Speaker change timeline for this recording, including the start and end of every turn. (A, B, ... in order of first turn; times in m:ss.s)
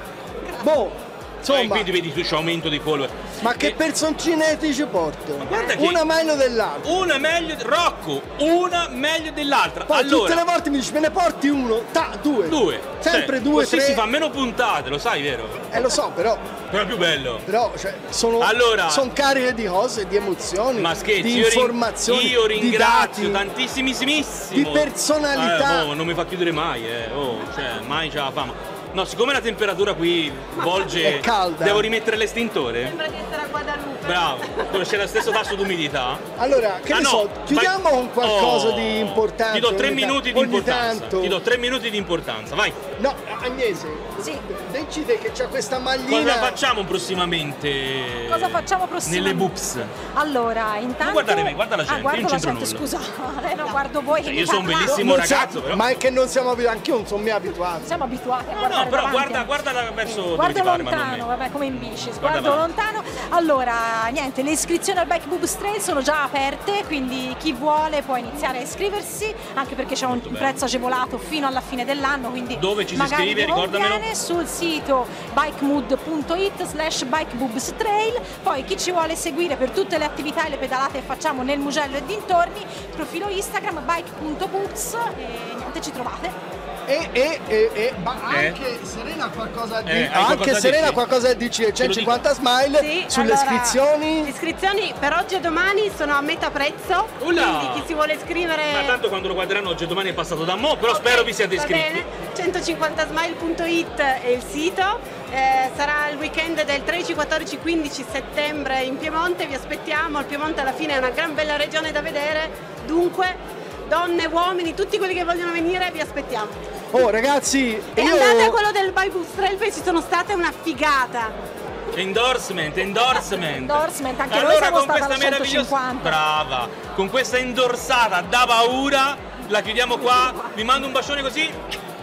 0:00.6-0:01.9 A
0:01.4-0:03.8 B
0:03.4-0:07.1 A
0:05.4-0:06.0 B
0:05.5-0:05.8 C
0:06.8-0:10.4 B
0:09.9-0:14.0 A
0:12.4-0:15.9 B
0:15.7-0:16.4 A
0:16.7-0:17.4 B
0:17.4-0:23.4 A
0:18.4-0:19.1 B
0:20.8-0:33.0 B
0:24.5-0:25.9 A
0:30.5-0:31.1 C
0:31.0-0:31.8 A
0:32.8-0:35.4 C
0:34.0-0:36.3 B
0:36.4-0:41.4 A
0:36.9-0:42.8 B
0:43.0-0:46.6 A
0:44.2-0:44.4 D
0:46.1-0:49.9 B
0:48.2-0:55.1 D
0:51.0-0:52.8 B
0:54.2-0:55.9 B
0:54.9-0:57.9 A
0:57.8-1:26.3 D
0:58.5-1:02.7 B
1:10.1-1:10.6 B
1:12.6-1:14.0 B
1:26.9-1:34.3 A
1:28.3-1:28.6 B
1:29.8-1:31.0 B
1:31.8-1:32.2 B
1:32.7-1:39.0 C
1:37.2-1:37.9 B
1:38.7-1:42.0 B
1:40.9-1:56.6 C
1:56.9-1:58.5 A
1:57.9-2:01.4 C
2:01.9-2:11.6 B
2:03.2-2:06.2 D
2:09.9-2:10.6 D